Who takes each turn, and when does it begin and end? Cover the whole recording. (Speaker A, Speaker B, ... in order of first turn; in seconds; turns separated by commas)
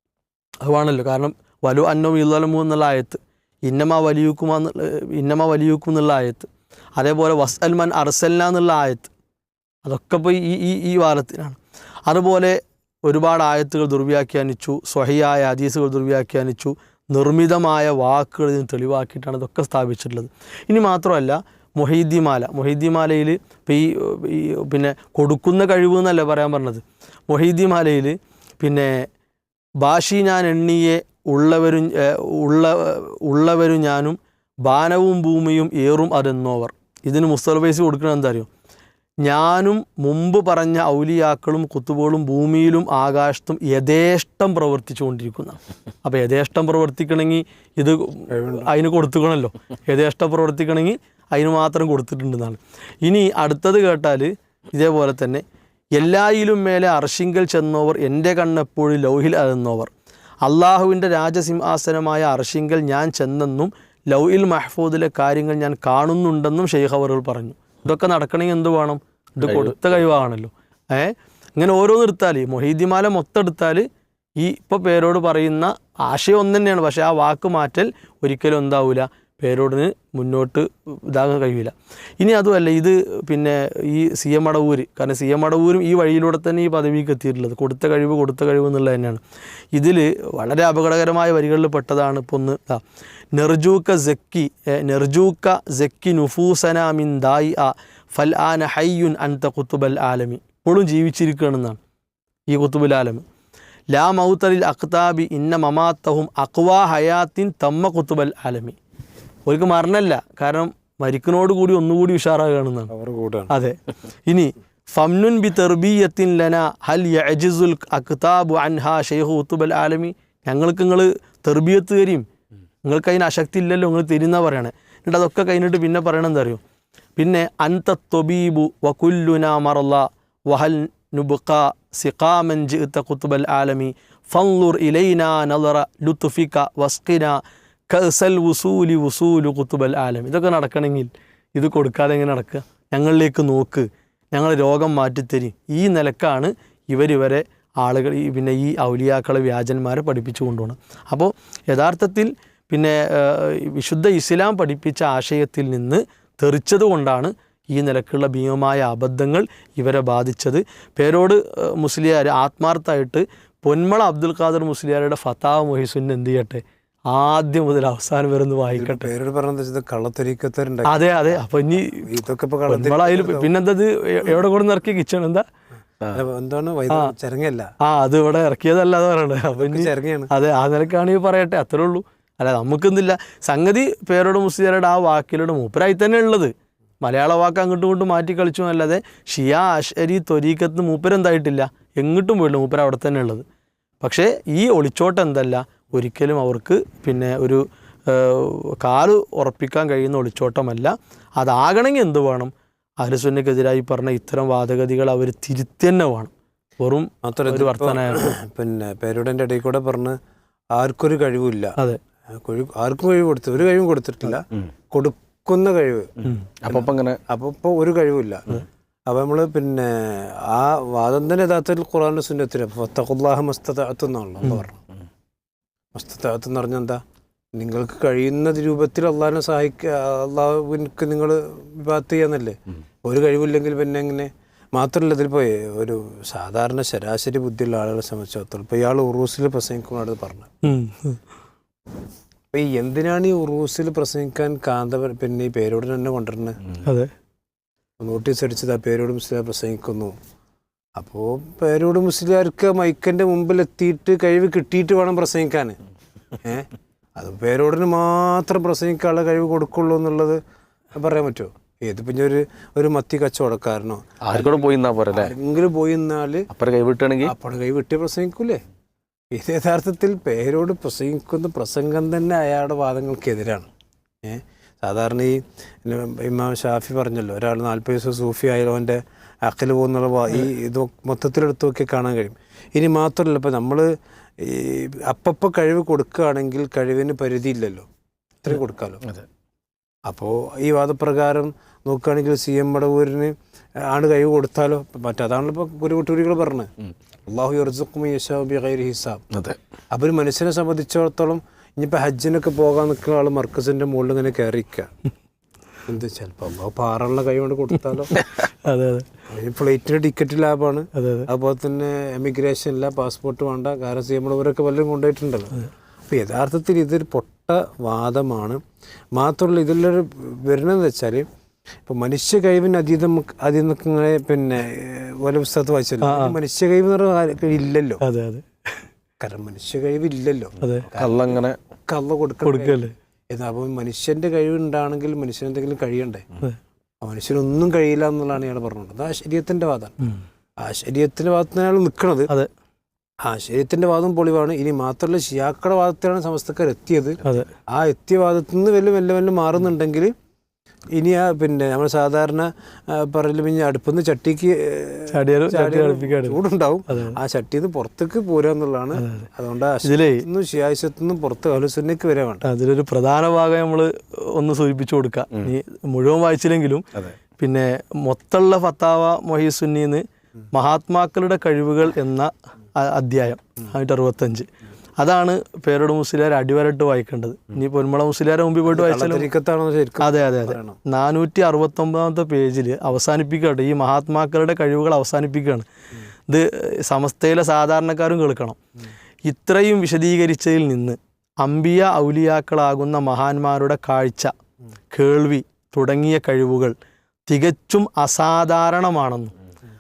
Speaker A: 0.7-9.1, Speaker A: 9.8-29.1, Speaker A: 29.8-38.5, Speaker A: 39.2-55.4, Speaker B: 48.3-48.7, Speaker A: 56.0-59.9, Speaker A: 60.5-73.9, Speaker C: 69.4-69.8, Speaker A: 74.4-89.2, Speaker A: 89.8-92.8, Speaker A: 93.3-101.8, Speaker A: 102.5-103.2, Speaker A: 103.9-108.8, Speaker A: 109.5-112.9, Speaker B: 112.9-113.5, Speaker A: 113.5-122.2, Speaker A: 122.8-126.6, Speaker A: 127.2-137.4, Speaker A: 137.9-169.1, Speaker B: 168.8-171.0, Speaker A: 170.9-172.1, Speaker B: 172.0-173.5, Speaker A: 172.7-175.4, Speaker B: 176.1-177.7, Speaker A: 177.8-193.4, Speaker B: 179.6-180.3, Speaker A: 194.0-208.2, Speaker B: 207.2-210.2, Speaker B: 210.7-211.8, Speaker B: 212.4-216.2, Speaker C: 216.6-217.2, Speaker B: 216.7-224.8, Speaker B: 225.9-227.0, Speaker B: 227.5-240.5, Speaker A: 240.6-241.2, Speaker B: 242.5-246.6, Speaker A: 246.8-247.1, Speaker B: 248.0-250.2, Speaker B: 251.0-255.8, Speaker B: 256.4-260.4, Speaker B: 260.9-266.5, Speaker C: 264.2-265.3, Speaker C: 266.5-267.3, Speaker B: 267.2-268.6, Speaker B: 269.3-273.7, Speaker B: 274.2-287.9, Speaker B: 288.4-289.0, Speaker B: 290.1-296.7, Speaker B: 297.3-299.2, Speaker C: 299.3-299.6, Speaker B: 299.9-304.9, Speaker B: 305.9-308.1, Speaker A: 308.6-309.1, Speaker B: 309.3-318.6, Speaker A: 310.9-311.3, Speaker B: 319.1-321.3, Speaker B: 321.9-328.0, Speaker A: 326.0-326.4, Speaker A: 328.0-328.8, Speaker B: 329.2-336.3, Speaker A: 330.6-330.9, Speaker C: 330.9-331.6, Speaker A: 332.4-332.9, Speaker B: 337.0-340.0, Speaker B: 340.6-342.3, Speaker B: 343.2-350.1, Speaker A: 347.2-347.5, Speaker B: 350.9-362.5, Speaker A: 355.1-356.4, Speaker A: 356.9-357.2, Speaker A: 358.9-359.3, Speaker A: 359.8-360.2, Speaker A: 362.4-366.9, Speaker A: 367.4-374.5, Speaker A: 375.0-379.3, Speaker B: 378.7-380.8, Speaker A: 380.0-385.7, Speaker A: 386.3-388.6, Speaker A: 389.3-394.3, Speaker A: 394.9-396.7, Speaker A: 397.3-399.3